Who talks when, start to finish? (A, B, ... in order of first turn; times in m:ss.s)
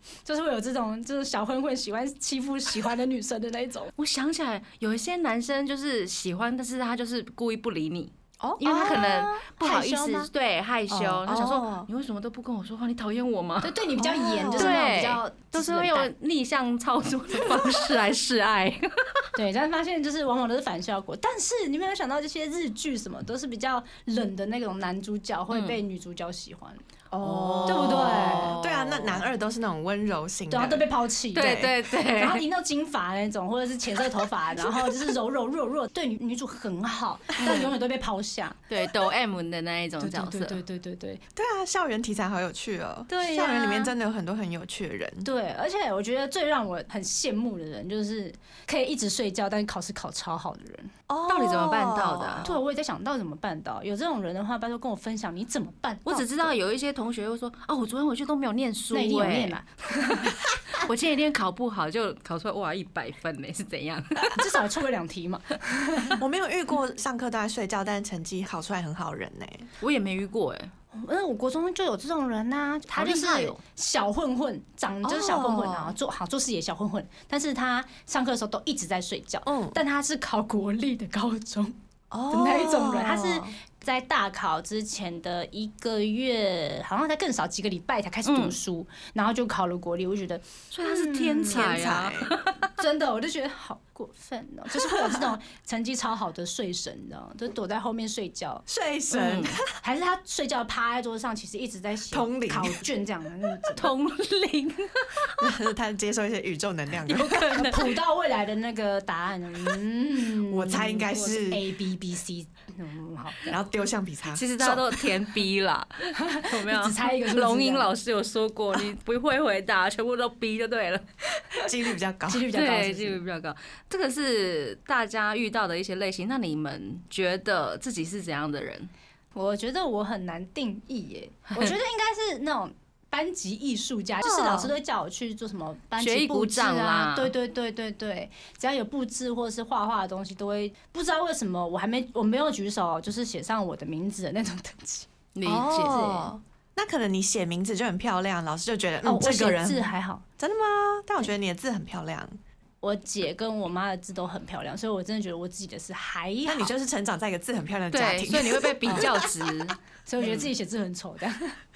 0:00.2-0:03.9 A
0:04.0-0:13.8 B
0:08.4-0:09.0 C
0:08.6-0:10.3 A
0:10.9-0:11.2 A
0:11.2-0:11.9 C
0:13.6-0:16.1 A
0:14.0-0:14.8 C
0:14.5-0:19.3 B
0:19.4-0:26.8 A
0:25.5-0:25.8 B
0:27.1-0:30.9 C
0:27.2-0:29.2 B
0:27.6-0:28.5 A
0:30.5-0:38.6 A
0:31.3-0:32.4 B
0:37.4-0:37.7 B
0:38.7-0:40.6 B
0:40.0-0:41.2 A
0:41.4-0:45.3 C
0:43.1-0:43.9 A
0:45.2-0:50.9 A
0:51.1-0:52.6 C
0:51.3-0:52.5 B
0:52.4-0:56.5 A
0:56.0-0:59.6 B
0:58.9-1:00.8 A
1:00.1-1:04.5 B
1:04.3-1:06.2 A
1:06.2-1:09.7 C
1:09.8-1:10.7 B
1:10.9-1:21.7 A
1:12.9-1:13.6 B
1:15.0-1:16.0 C
1:19.4-1:19.8 C
1:22.1-1:23.5 C
1:22.3-1:31.8 A
1:28.2-1:28.6 B
1:30.7-1:32.7 B
1:31.5-1:32.3 C
1:32.8-1:38.6 A
1:34.7-1:35.3 C
1:38.7-1:39.7 C
1:39.1-1:39.6 B
1:39.8-1:43.9 A
1:42.1-1:42.8 C
1:43.8-1:45.5 B
1:45.4-1:47.5 C
1:47.0-1:47.9 B
1:47.1-1:53.6 A
1:50.5-1:51.6 C
1:53.5-1:55.0 C
1:54.3-2:01.0 B
1:56.2-1:57.9 A
2:01.6-2:02.5 C
2:02.3-2:03.2 A
2:02.5-2:08.9 B
2:09.3-2:25.1 A
2:14.2-2:14.7 C
2:16.0-2:17.3 B
2:25.3-2:26.0 B
2:25.4-2:32.4 C
2:25.8-2:26.3 A
2:29.0-2:30.2 A
2:32.8-2:36.7 A
2:36.4-2:39.5 C
2:37.9-2:40.4 B
2:40.0-2:41.5 A